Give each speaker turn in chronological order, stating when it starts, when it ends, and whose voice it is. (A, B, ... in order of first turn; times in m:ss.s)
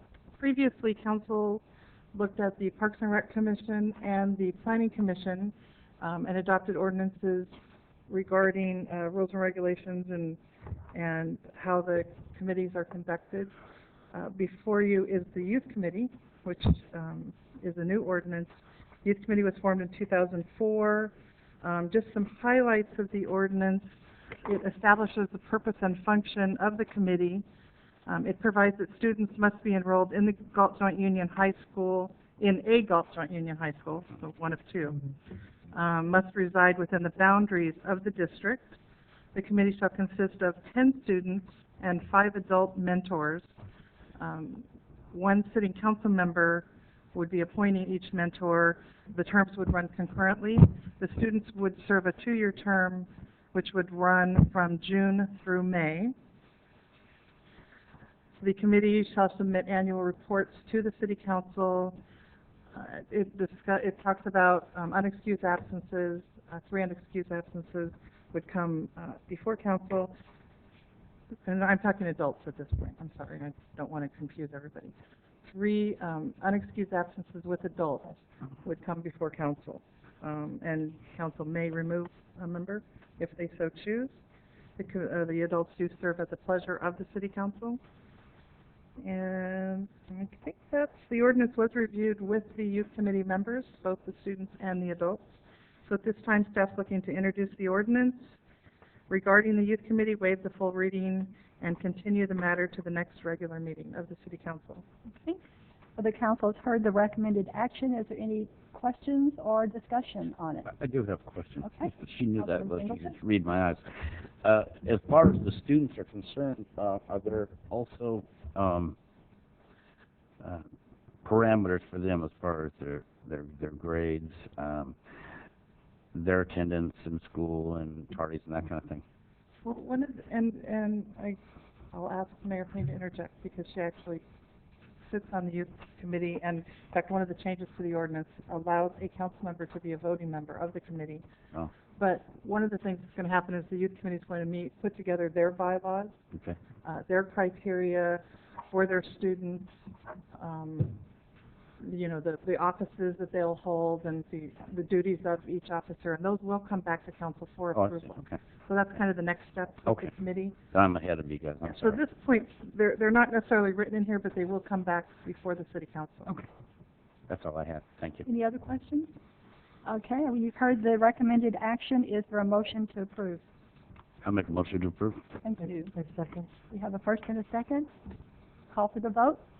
0:00.4-0:01.6 A
0:02.1-0:07.5 A
0:08.1-0:10.4 A
0:10.9-0:13.5 A
0:14.1-0:23.8 A
0:24.4-0:27.4 A
0:28.0-0:35.1 A
0:35.7-0:38.8 A
0:39.3-0:43.5 A
0:44.2-0:56.1 A
0:58.4-1:02.0 A
1:02.7-1:10.1 A
1:11.4-1:14.9 A
1:15.5-1:24.2 A
1:24.8-1:27.8 A
1:29.0-1:35.2 A
1:35.8-1:38.4 A
1:39.1-1:44.8 A
1:46.0-1:50.7 B
1:50.7-1:58.9 C
1:51.6-1:53.1 B
2:01.2-2:05.0 C
2:06.1-2:09.0 C
2:09.6-2:11.4 A
2:11.9-2:14.2 A
2:15.0-2:21.2 A
2:22.0-2:26.2 A
2:26.8-2:29.7 A
2:30.3-2:31.0 A
2:31.8-2:40.6 A
2:37.7-2:38.4 C
2:40.7-2:42.0 C
2:41.6-2:46.4 A
2:47.3-2:48.2 C
2:48.2-2:49.1 A
2:49.8-2:53.4 B
2:54.2-2:55.2 C
2:55.4-2:55.9 B
2:55.6-2:56.5 A
2:56.7-2:57.9 B
2:58.7-2:59.4 B